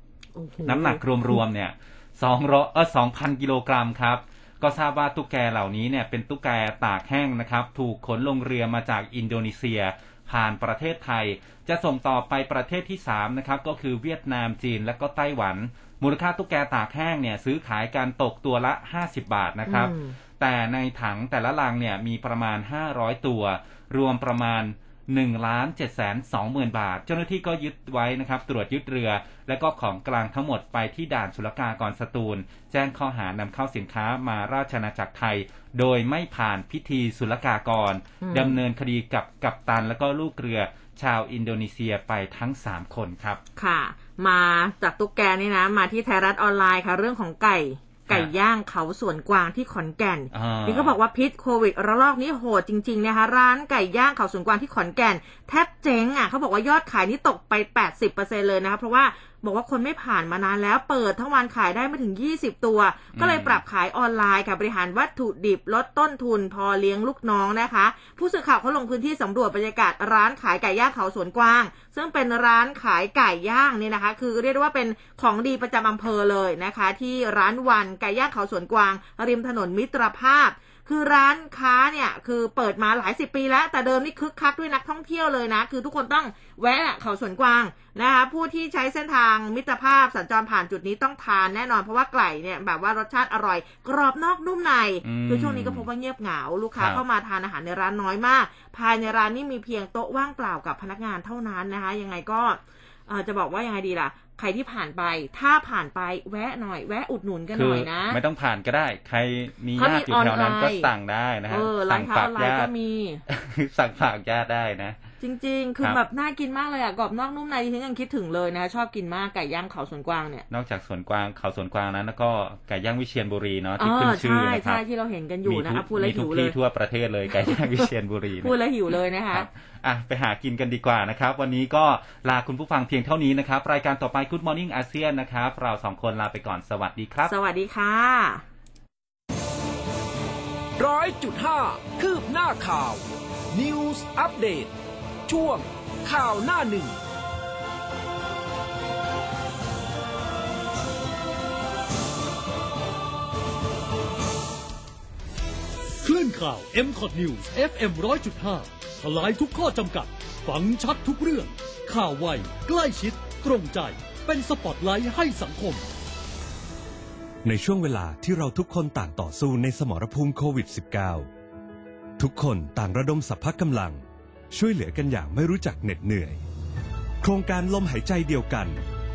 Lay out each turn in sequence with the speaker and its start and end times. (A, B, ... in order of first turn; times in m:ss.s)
0:00.3-0:01.4 A
0:00.6-0:43.4 B
0:19.7-0:20.2 A
0:38.2-0:38.6 A
0:43.6-1:48.2 A
0:50.3-0:50.9 B
1:03.1-1:03.6 B
1:35.0-1:35.9 B
1:36.7-1:37.0 B
1:47.5-1:52.7 B
1:49.8-1:50.9 A
1:51.5-1:53.2 A
1:53.3-1:55.0 B
1:55.2-2:00.4 A
2:00.5-2:04.8 B
2:03.8-2:06.5 A
2:05.4-2:08.5 B
2:07.5-2:07.9 A
2:08.4-2:09.5 A
2:09.3-2:17.3 B
2:17.3-2:18.4 A
2:20.8-2:24.7 C
2:25.3-2:26.9 C
2:36.0-2:45.8 D
2:47.4-2:51.3 E
2:52.2-2:56.4 E
2:57.2-2:58.8 E